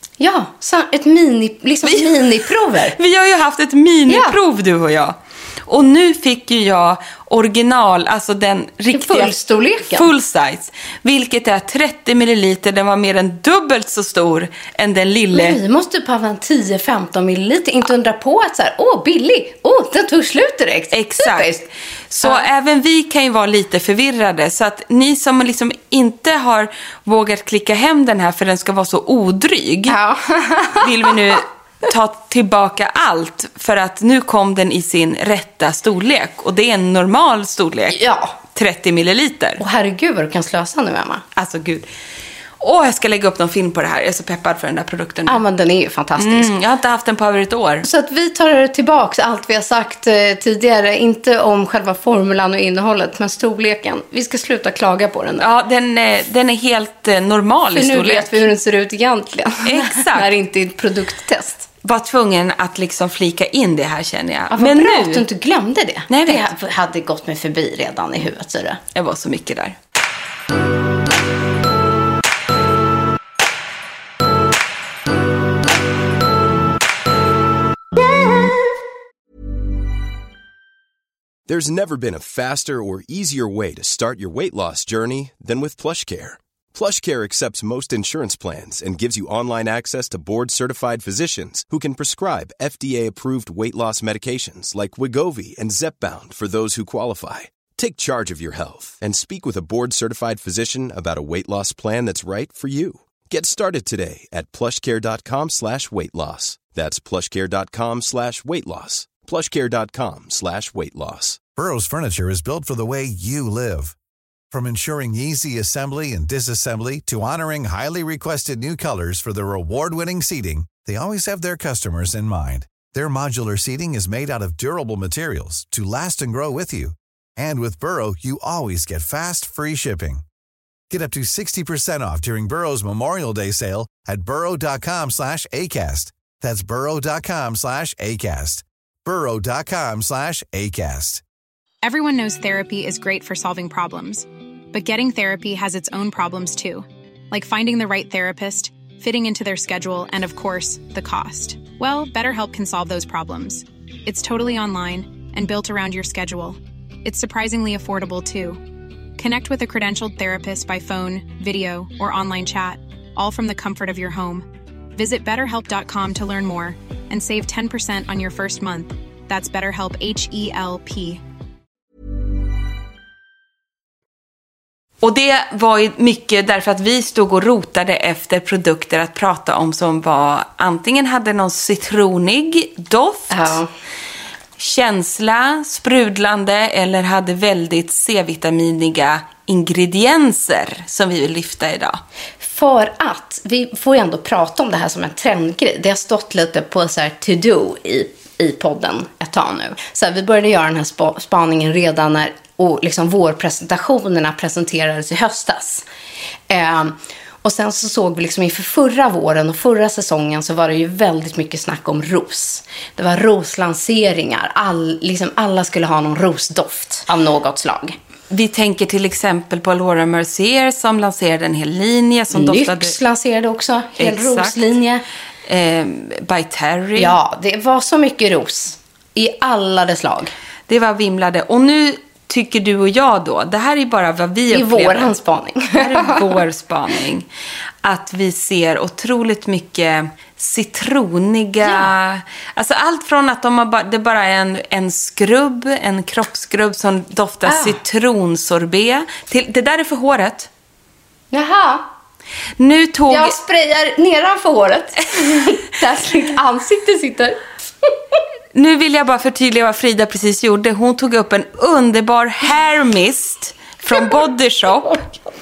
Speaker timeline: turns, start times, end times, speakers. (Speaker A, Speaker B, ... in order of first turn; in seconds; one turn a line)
Speaker A: 0.2-3.0
Speaker B: 1.9-2.1
Speaker B: 3.0-9.3
Speaker A: 4.1-4.3
Speaker A: 8.9-10.1
Speaker B: 9.9-15.6
Speaker A: 15.3-21.6
Speaker B: 20.9-21.5
Speaker B: 22.1-30.0
Speaker A: 29.9-31.2
Speaker B: 30.8-39.6
Speaker A: 37.9-38.4
Speaker A: 39.6-41.2
Speaker B: 41.4-41.9
Speaker B: 42.6-45.4
Speaker A: 45.3-46.5
Speaker B: 46.2-47.9
Speaker A: 47.8-55.5
Speaker B: 55.4-58.5
Speaker A: 57.7-61.7
Speaker B: 59.7-60.3
Speaker B: 61.8-65.2
Speaker A: 64.5-68.8
Speaker B: 66.1-66.5
Speaker B: 68.9-69.8
Speaker C: 81.5-111.4
Speaker D: 111.5-113.9
Speaker D: 114.5-130.2
Speaker D: 130.9-141.2
Speaker E: 141.8-158.6
Speaker E: 159.2-171.2
Speaker B: 175.0-183.6
Speaker A: 183.3-183.7
Speaker B: 184.6-192.0
Speaker A: 192.4-205.8
Speaker A: 206.5-218.0
Speaker B: 218.3-223.0
Speaker A: 222.3-225.0
Speaker B: 224.0-224.6
Speaker B: 225.5-227.1
Speaker A: 227.0-230.3
Speaker B: 230.7-235.1
Speaker A: 234.5-236.2
Speaker B: 235.8-237.3
Speaker B: 237.8-250.5
Speaker A: 241.6-241.9
Speaker A: 247.5-247.8
Speaker A: 251.3-251.9
Speaker B: 252.6-253.4
Speaker A: 253.1-257.9
Speaker B: 258.5-265.0